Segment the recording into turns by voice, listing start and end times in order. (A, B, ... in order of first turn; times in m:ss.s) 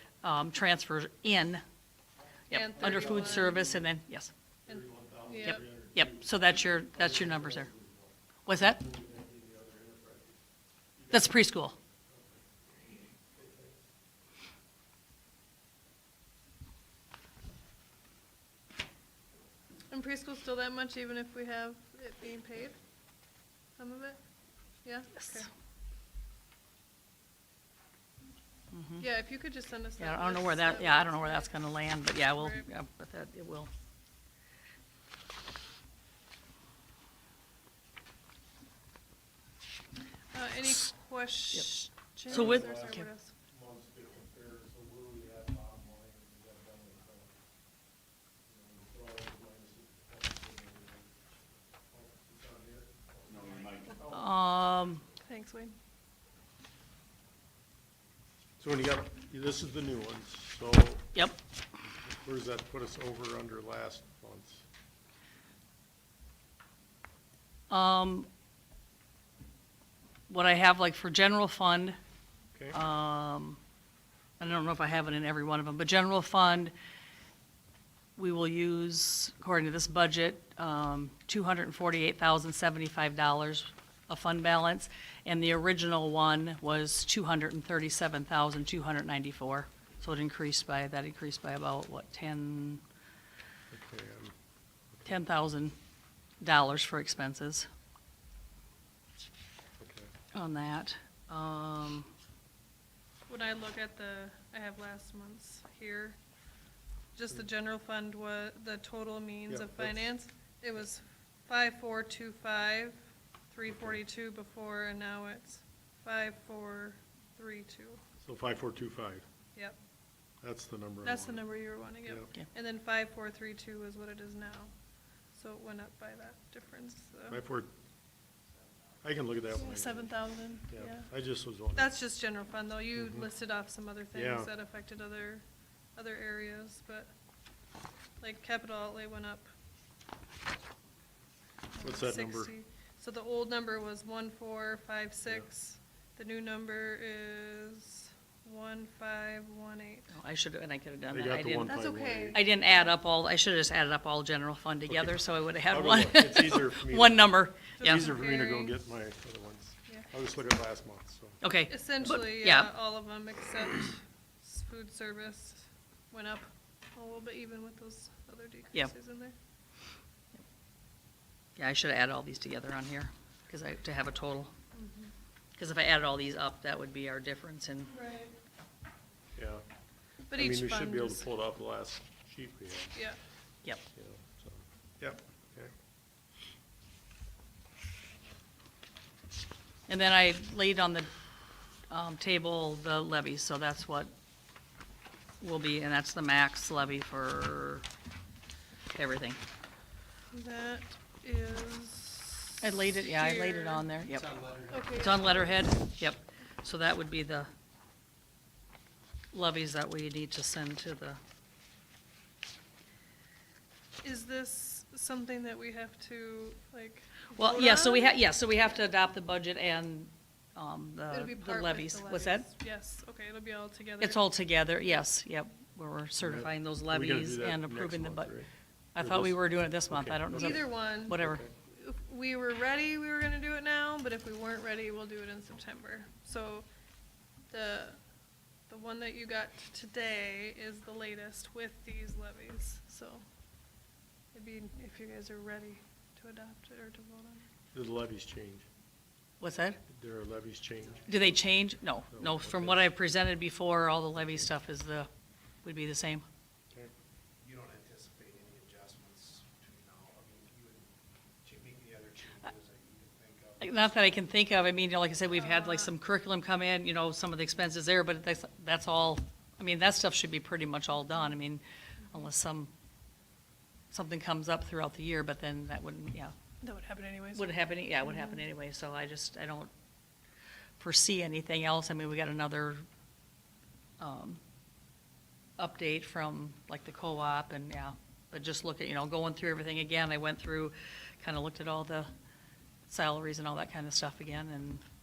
0:00.2-0:01.6 A
0:02.5-0:04.3 A
0:02.5-0:03.7 B
0:02.8-0:03.9 C
0:04.6-0:10.4 C
0:04.7-0:05.6 B
0:05.4-0:07.7 A
0:08.4-0:08.8 A
0:11.0-0:11.3 C
0:11.1-0:11.7 A
0:12.1-0:12.5 C
0:13.3-0:13.8 C
0:19.9-0:22.8 B
0:23.8-0:24.2 B
0:24.8-0:25.5 B
0:28.7-0:29.0 A
0:29.0-0:31.6 B
0:30.0-0:33.7 A
0:32.3-0:32.6 B
0:40.3-0:43.3 B
0:42.3-0:47.3 C
0:42.3-0:43.1 A
0:48.5-0:54.2 C
0:54.0-0:55.0 A
0:55.2-0:55.7 B
0:58.6-1:01.1 C
1:02.1-1:04.6 C
1:07.7-1:08.3 A
1:10.3-1:12.0 A
1:12.7-1:13.6 A
1:14.4-1:16.7 A
1:18.2-1:32.8 A
1:33.7-1:34.3 C
1:34.9-1:35.2 C
1:35.0-1:35.7 A
1:36.4-1:37.7 A
1:39.8-1:40.1 C
1:40.3-1:42.1 A
1:43.3-1:46.2 B
1:47.1-1:58.0 B
1:49.5-1:50.1 C
1:53.7-1:54.0 C
1:58.2-1:59.2 C
2:00.4-2:01.4 C
2:01.0-2:04.7 B
2:05.3-2:07.4 B
2:07.3-2:07.7 C
2:09.0-2:10.1 C
2:09.5-2:11.1 B
2:10.7-2:11.9 C
2:11.8-2:17.1 B
2:13.0-2:13.2 C
2:14.1-2:14.5 C
2:18.2-2:19.5 B
2:21.7-2:30.1 B
2:21.8-2:22.5 C
2:30.1-2:38.1 A
2:31.1-2:32.4 C
2:31.6-2:32.9 B
2:34.9-2:41.4 C
2:37.8-2:38.8 B
2:41.4-2:42.7 A
2:41.7-2:49.3 B
2:51.6-2:54.5 A
2:54.7-2:55.1 B
2:55.6-2:57.9 A
2:57.9-2:58.3 B
2:59.4-2:59.6 C
3:00.3-3:01.2 B
3:00.3-3:03.0 C
3:03.9-3:05.7 C
3:09.9-3:11.1 A
3:11.9-3:14.1 A
3:15.4-3:17.8 A
3:18.9-3:19.4 A
3:20.3-3:23.9 B
3:22.6-3:24.4 A
3:24.1-3:25.1 D
3:24.7-3:25.6 B
3:24.9-3:27.5 A
3:29.3-3:31.2 A
3:34.0-3:38.1 B
3:37.4-3:42.5 A
3:41.1-3:44.2 B
3:44.0-3:48.4 A
3:46.2-3:48.5 C
3:48.9-3:51.4 A
3:49.0-3:51.5 C
3:50.3-3:56.7 B
3:57.5-3:58.0 B
3:58.7-4:03.2 B
4:04.3-4:07.4 B
4:07.7-4:08.6 C
4:09.4-4:09.8 A
4:09.9-4:11.3 C
4:11.0-4:15.1 A
4:12.1-4:12.9 C
4:15.6-4:16.2 A
4:17.4-4:20.9 D
4:21.4-4:23.8 D
4:23.6-4:32.7 A
4:25.3-4:25.9 B
4:33.9-4:36.3 A
4:36.6-4:38.4 B
4:37.3-4:39.7 A
4:40.8-4:42.8 A
4:44.0-4:44.4 A
4:45.6-4:52.1 A
4:52.9-4:54.8 A